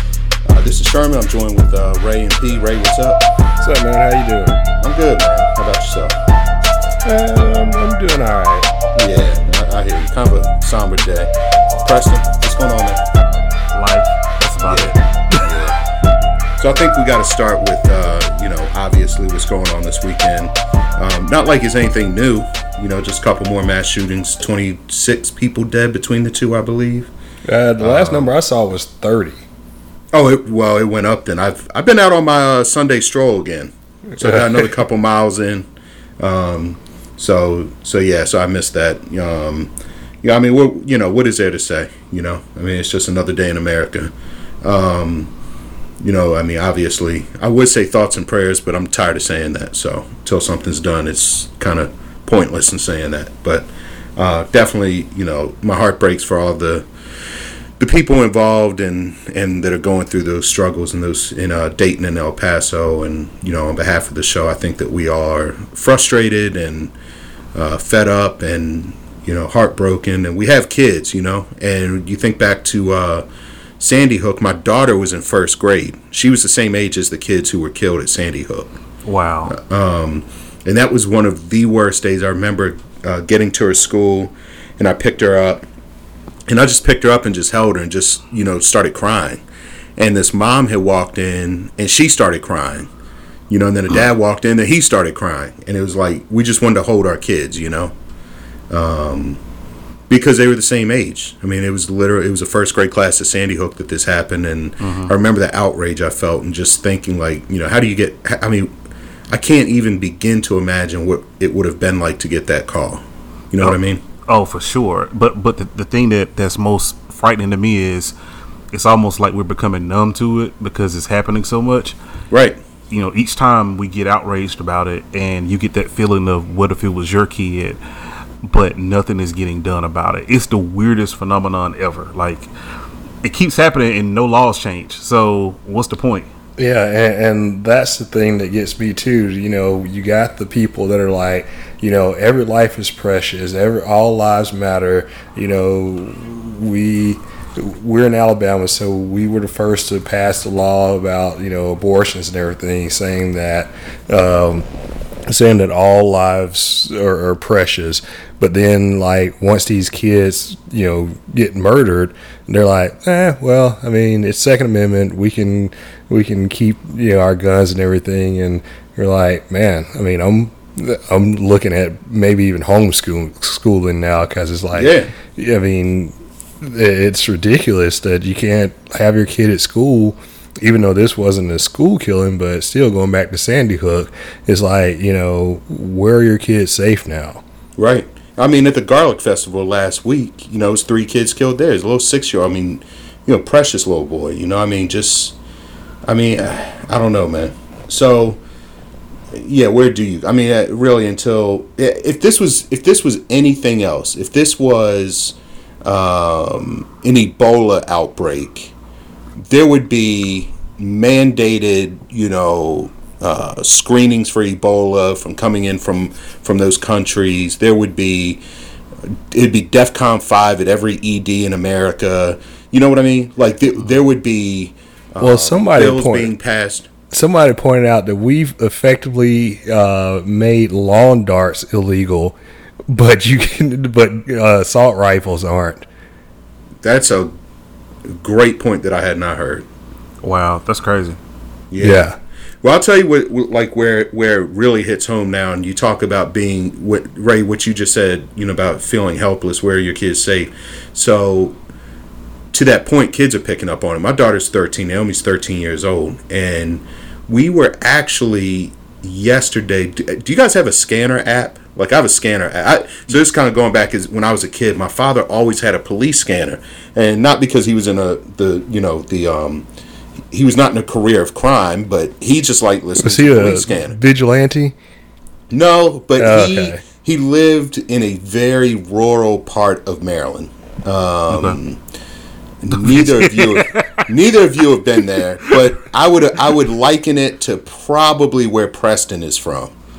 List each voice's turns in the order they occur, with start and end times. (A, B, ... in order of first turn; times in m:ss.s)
0:00.5-0:03.2 A
0:03.6-0:04.6 B
0:04.8-0:06.2 A
0:07.0-0:08.7 B
0:09.0-0:11.3 A
0:11.8-0:13.0 A
0:13.7-0:15.5 C
0:14.6-0:15.8 A
0:16.6-0:27.1 A
0:27.5-0:29.4 B
0:27.8-0:28.3 A
0:30.1-0:35.6 A
0:36.2-0:39.7 A
0:40.2-0:44.1 A
0:44.6-0:45.3 A
0:46.0-0:56.8 A
0:57.8-1:06.9 A
1:07.5-1:13.2 A
1:13.8-1:18.7 A
1:19.1-1:19.6 C
1:19.5-1:25.6 A
1:26.5-1:29.4 A
1:30.0-1:32.9 A
1:33.5-1:37.9 A
1:38.7-1:39.4 A
1:40.1-1:48.7 A
1:44.8-1:45.1 C
1:49.3-1:54.0 A
1:53.6-1:58.1 C
1:58.7-2:02.0 C
2:02.3-2:02.6 A
2:02.9-2:07.8 C
2:08.4-2:12.5 C
2:13.2-2:16.3 C
2:16.6-2:34.7 B
2:35.3-3:07.4 B
2:54.7-2:55.1 A
3:07.8-3:15.3 A
3:16.1-3:18.4 A
3:19.3-3:28.7 A
3:29.5-3:38.4 A
3:39.3-3:46.9 A
3:45.2-3:46.3 B
3:47.1-3:52.4 B
3:52.9-3:55.8 B
3:56.8-3:57.3 A
3:58.1-3:59.7 A
4:00.2-4:01.2 C
4:01.7-4:02.0 A
4:01.8-4:02.2 B
4:02.6-4:11.6 A
4:12.5-4:29.6 A
4:30.3-4:34.0 A
4:33.0-4:34.8 B
4:35.5-4:41.8 A
4:36.2-4:36.8 B
4:41.3-4:41.6 C
4:42.6-4:49.7 A
4:42.7-4:44.1 C